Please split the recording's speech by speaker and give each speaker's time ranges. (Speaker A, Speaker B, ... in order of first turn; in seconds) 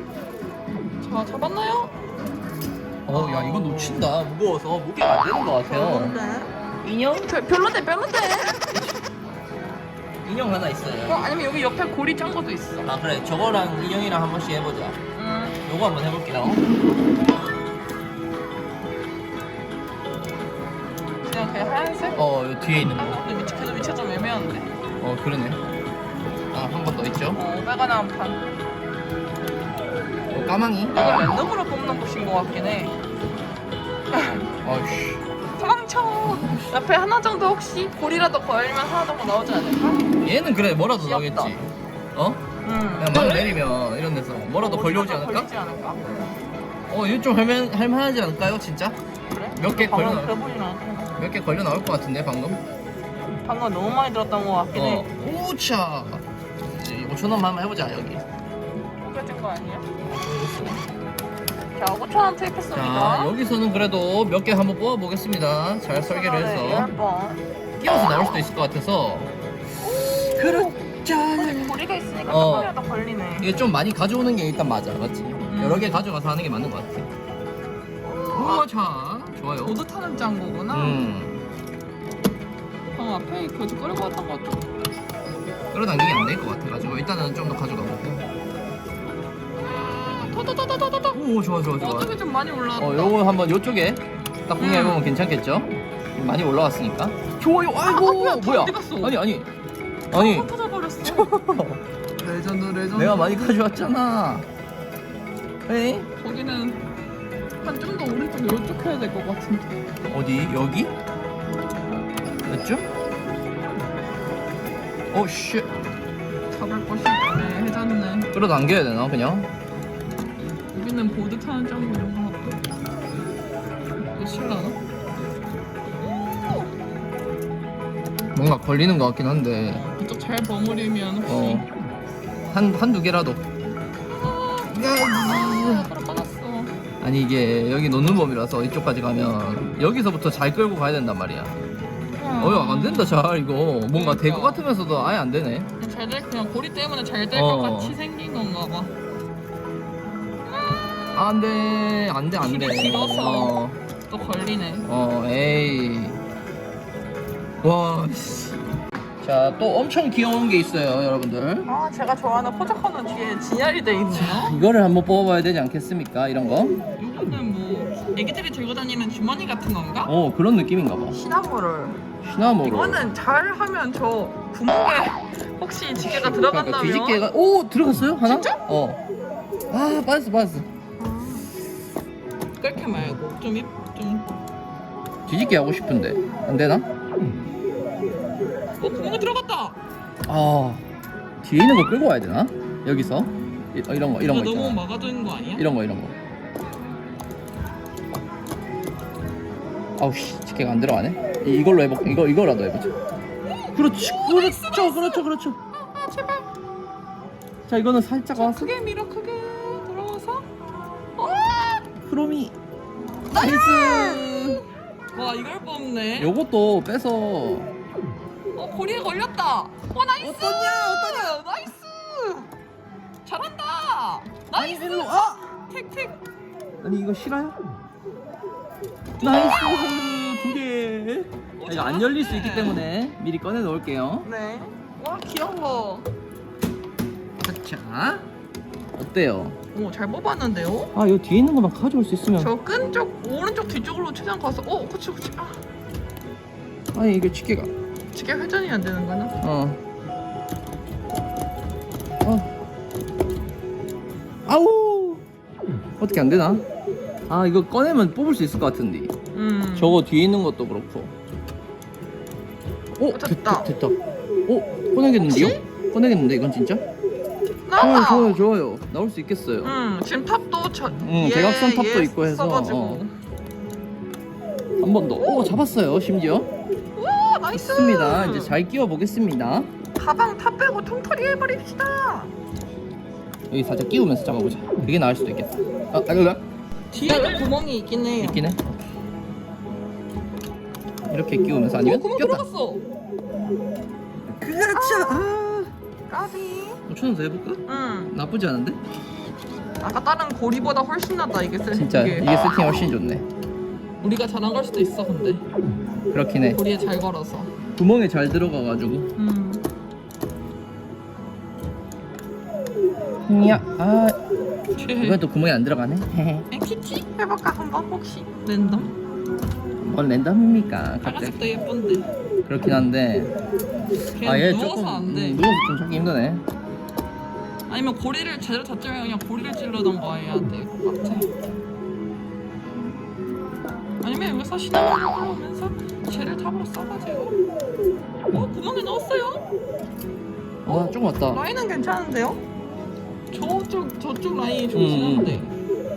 Speaker A: 1.0-1.9, 3.1-4.1, 5.4-6.5, 7.1-8.8, 11.1-12.9, 15.2-15.6, 21.3-24.7, 27.3-28.4, 30.9-32.9, 34.1-34.4, 35.6-40.2, 41.0-41.5, 42.6-43.5, 44.6-46.3, 49.3-51.1, 53.4-55.1, 59.0-59.9, 61.8-63.3, 65.9-67.4, 69.8-70.8, 71.4-73.5, 75.4-76.0, 78.0-78.7, 79.6-81.0, 82.9-84.7, 89.6-91.2, 91.8-93.2, 94.6-95.1, 97.8-99.2, 100.1-101.4, 102.2-103.6, 106.2-106.8, 107.6-109.8, 116.5-118.3, 120.7-122.5, 124.2-124.8, 126.0-126.7, 129.7-131.7, 134.1-136.7, 142.2-143.2, 143.9-144.6, 145.8-148.9, 150.5-151.3, 152.4-153.6, 154.1-154.9, 161.7-164.6, 167.0-170.1, 171.1-172.0, 172.6-177.2, 178.2-178.6, 181.0-181.5, 182.6-184.3, 188.8-189.8, 194.2-195.7, 203.4-206.4, 208.3-210.5, 211.2-211.9, 213.3-216.3, 218.6-222.5, 223.2-226.2, 231.6-232.8, 234.2-236.1, 239.7-240.9, 242.4-245.6, 248.1-249.3, 259.3-260.0, 263.1-263.7, 265.2-265.6, 267.7-268.4, 269.6-273.1, 275.2-275.5, 276.9-278.6, 280.0-282.3, 286.9-288.4, 291.8-292.8, 294.7-295.3, 296.1-296.8, 297.7-298.1, 299.8-302.3, 304.0-305.4, 306.5-307.5, 309.2-309.6, 314.8-315.2, 316.5-318.9, 321.0-322.1, 324.1-325.5, 327.7-331.3, 334.0-337.4, 338.3-339.4, 340.7-342.4, 343.3-345.5
Speaker B: 3.1-6.2, 6.8-7.3, 10.2-11.3, 12.8-15.0, 15.7-16.6, 22.2-23.2, 25.0-25.6, 26.5-27.4, 30.3-31.2, 34.6-35.2, 40.2-42.4, 43.0-45.5, 46.9-49.0, 49.6-50.4, 51.2-52.6, 54.7-58.2, 60.1-60.8, 62.7-66.9, 67.8-69.3, 69.9-72.8, 73.4-77.1, 78.3-79.8, 80.7-81.4, 85.7-88.3, 91.1-92.1, 92.8-99.5, 100.1-100.5, 101.0-101.8, 103.0-104.5, 105.7-106.1, 110.1-110.9, 112.5-112.9, 115.1-115.7, 118.3-119.5, 128.3-129.8, 131.2-131.7, 132.5-133.4, 134.7-135.9, 137.0-141.5, 142.4-145.7, 147.3-148.0, 151.2-153.8, 154.9-156.2, 157.6-158.6, 159.2-161.7, 164.1-166.8, 170.1-171.2, 172.2-173.1, 175.9-179.0, 179.7-180.7, 185.3-186.9, 190.3-190.8, 191.4-194.8, 195.6-196.2, 200.0-202.9, 203.8-205.6, 207.7-208.7, 212.0-212.6, 213.3-214.6, 216.2-217.7, 220.2-221.4, 224.5-225.4, 226.8-227.6, 229.2-234.3, 237.4-238.3, 239.0-239.6, 240.9-242.5, 246.9-247.7, 249.4-249.8, 252.2-252.5, 254.5-255.2, 256.0-256.6, 257.3-259.1, 259.8-261.1, 263.0-264.0, 264.5-266.8, 267.8-269.7, 271.0-273.0, 274.8-276.5, 277.5-279.7, 283.5-286.4, 287.0-287.4, 288.2-288.8, 291.1-292.5, 294.4-295.7, 296.9-298.8, 301.7-303.2, 306.1-306.6, 307.8-309.1, 313.2-314.2, 315.0-316.5, 319.8-321.6, 322.5-323.3, 324.2-326.4, 340.6-341.4, 344.7-345.4